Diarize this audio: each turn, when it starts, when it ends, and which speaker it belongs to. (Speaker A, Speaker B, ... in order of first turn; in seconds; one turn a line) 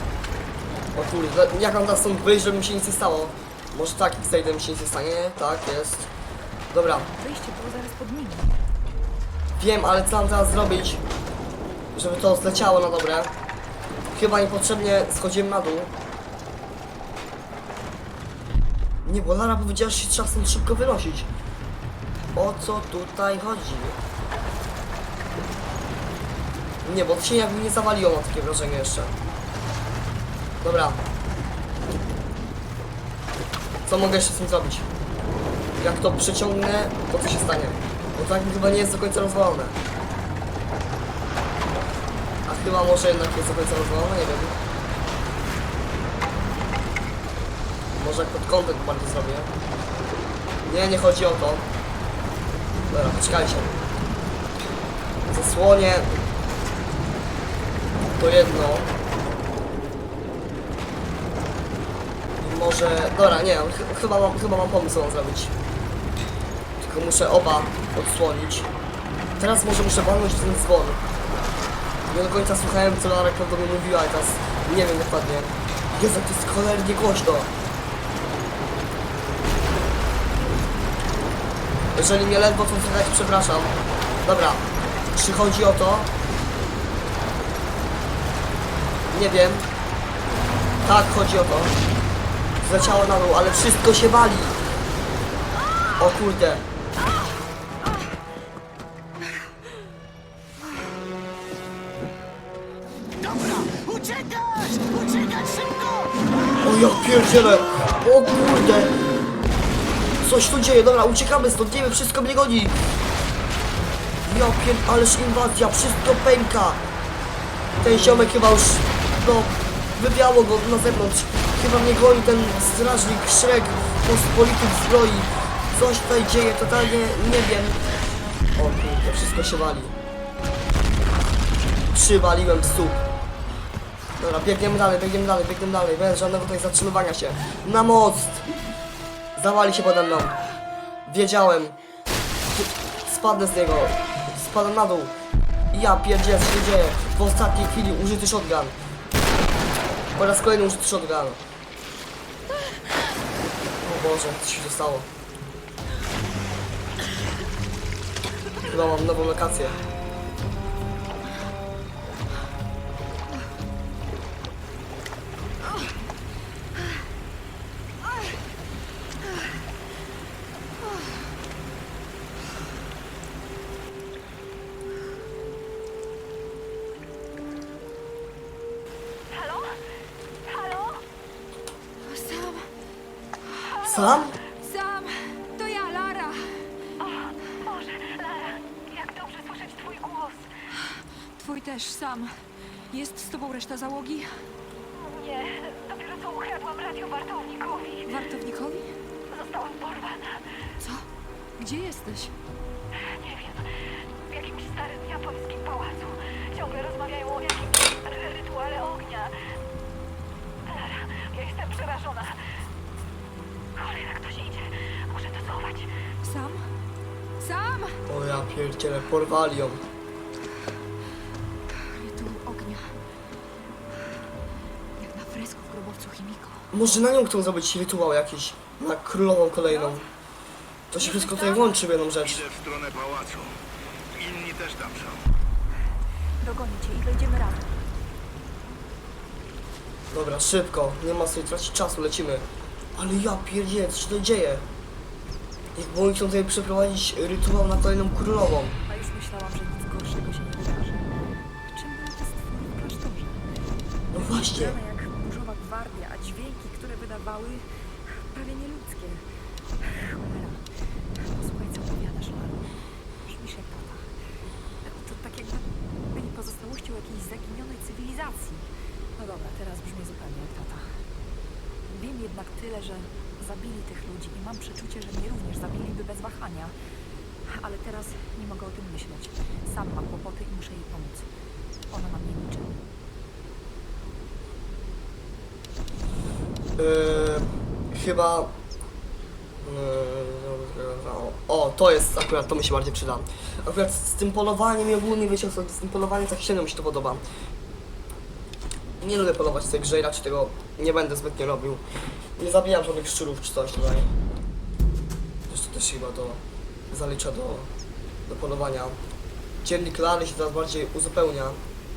Speaker A: 0.9-6.1
Speaker A: 6.7-7.1
Speaker B: 7.0-8.5
Speaker A: 9.6-11.0
Speaker A: 11.9-13.3
Speaker A: 14.1-15.9
Speaker A: 19.1-21.3
Speaker A: 22.3-24.0
Speaker A: 26.8-29.1
Speaker A: 30.6-31.0
Speaker A: 33.9-34.9
Speaker A: 35.8-39.8
Speaker A: 42.5-44.6
Speaker A: 48.0-49.5
Speaker A: 50.6-51.7
Speaker A: 52.9-53.8
Speaker A: 55.3-56.1
Speaker A: 58.2-58.9
Speaker A: 62.4-65.5
Speaker A: 66.8-68.7
Speaker A: 69.4-71.2
Speaker A: 72.1-77.5
Speaker A: 81.9-86.1
Speaker A: 89.1-89.7
Speaker A: 90.8-91.8
Speaker A: 92.6-94.6
Speaker A: 96.0-96.7
Speaker C: 103.2-106.1
Speaker A: 106.6-108.9
Speaker A: 110.2-112.8
Speaker A: 114.2-116.8
Speaker A: 117.8-127.8
Speaker A: 128.6-129.9
Speaker A: 131.9-133.0
Speaker A: 134.2-138.4
Speaker A: 139.3-140.4
Speaker A: 141.1-141.8
Speaker A: 142.5-145.1
Speaker A: 145.7-148.7
Speaker A: 150.1-151.4
Speaker A: 153.8-155.1
Speaker A: 158.7-159.8
Speaker D: 179.3-179.7
Speaker D: 180.5-181.0
Speaker B: 182.0-182.7
Speaker A: 183.8-184.4
Speaker B: 184.4-186.7
Speaker D: 187.2-190.4
Speaker B: 190.8-192.3
Speaker B: 192.9-194.4
Speaker D: 195.1-198.0
Speaker B: 198.0-198.9
Speaker D: 199.3-200.4
Speaker B: 200.8-201.1
Speaker B: 201.6-202.3
Speaker D: 203.2-203.6
Speaker D: 204.3-209.3
Speaker D: 210.7-212.3
Speaker D: 213.8-215.9
Speaker B: 216.2-216.6
Speaker B: 217.4-218.0
Speaker A: 218.1-219.8
Speaker B: 221.7-222.9
Speaker B: 225.0-226.7
Speaker A: 226.7-230.0
Speaker A: 230.9-232.5
Speaker B: 231.0-231.8
Speaker E: 232.5-233.5
Speaker E: 234.2-235.2
Speaker B: 236.4-237.7
Speaker A: 240.1-244.7
Speaker A: 245.8-248.8
Speaker B: 248.9-251.0
Speaker B: 251.7-253.4
Speaker A: 254.1-254.8
Speaker B: 254.3-259.2
Speaker B: 259.8-260.6
Speaker B: 261.1-262.7
Speaker B: 263.2-264.1
Speaker B: 264.8-271.0
Speaker B: 271.9-276.7
Speaker B: 277.5-281.3
Speaker B: 281.9-282.8
Speaker A: 286.8-288.5
Speaker A: 289.6-297.2
Speaker A: 299.0-301.8
Speaker A: 302.4-304.1
Speaker A: 305.5-307.7
Speaker A: 308.3-309.0
Speaker A: 309.6-311.6